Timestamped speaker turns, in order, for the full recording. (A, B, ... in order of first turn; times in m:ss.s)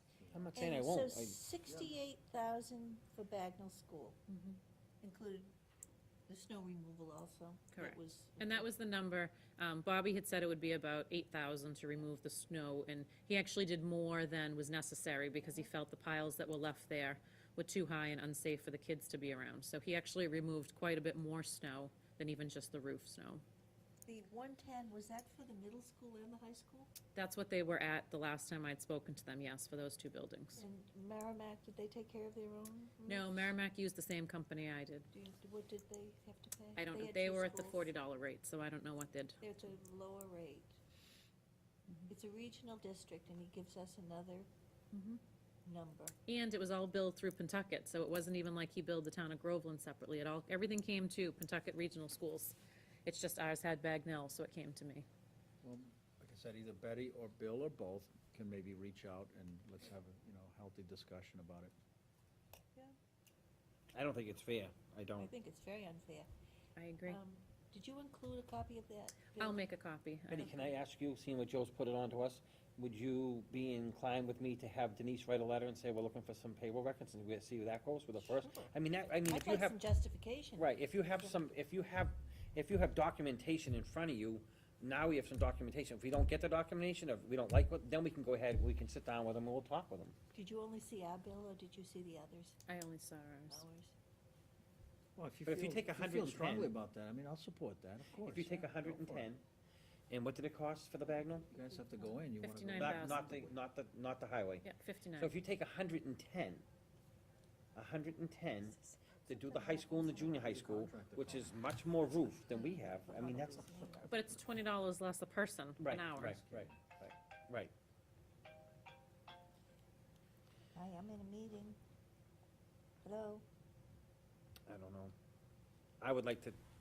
0:00.2-0:00.6 A
0:00.3-0:01.4 B
0:00.6-0:04.2 C
0:01.7-0:02.0 A
0:04.3-0:04.6 D
0:05.0-0:05.5 C
0:06.3-0:08.7 C
0:07.7-0:23.4 D
0:24.1-0:26.9 C
0:27.2-0:30.6 D
0:30.6-0:33.5 C
0:33.1-0:35.1 D
0:35.1-0:37.9 C
0:36.8-0:39.4 D
0:39.4-0:40.8 C
0:42.1-0:44.5 C
0:44.9-0:45.2 D
0:45.6-0:46.2 C
0:46.3-0:55.1 D
0:55.6-1:01.7 A
1:03.9-1:05.3 B
1:05.2-1:06.3 C
1:06.8-1:07.2 D
1:07.1-1:09.6 C
1:09.4-1:10.7 D
1:10.3-1:19.8 B
1:18.4-1:18.7 C
1:19.3-1:21.4 C
1:20.6-1:30.2 B
1:30.3-1:32.6 C
1:32.7-1:33.6 D
1:33.5-1:33.9 C
1:35.2-1:39.3 A
1:35.5-1:36.7 B
1:38.2-1:39.4 B
1:40.1-1:41.5 B
1:41.5-1:43.6 A
1:41.6-1:42.3 C
1:42.4-1:43.2 D
1:42.8-1:46.6 B
1:44.6-1:45.3 D
1:47.8-1:54.1 B
1:49.5-1:50.2 C
1:50.2-1:51.5 A
1:52.5-1:54.2 C
1:54.1-1:56.4 D
1:55.8-1:57.7 B
1:56.2-1:56.8 A
2:00.8-2:01.8 C
2:03.0-2:03.4 C
2:04.7-2:05.1 B
2:06.0-2:06.6 B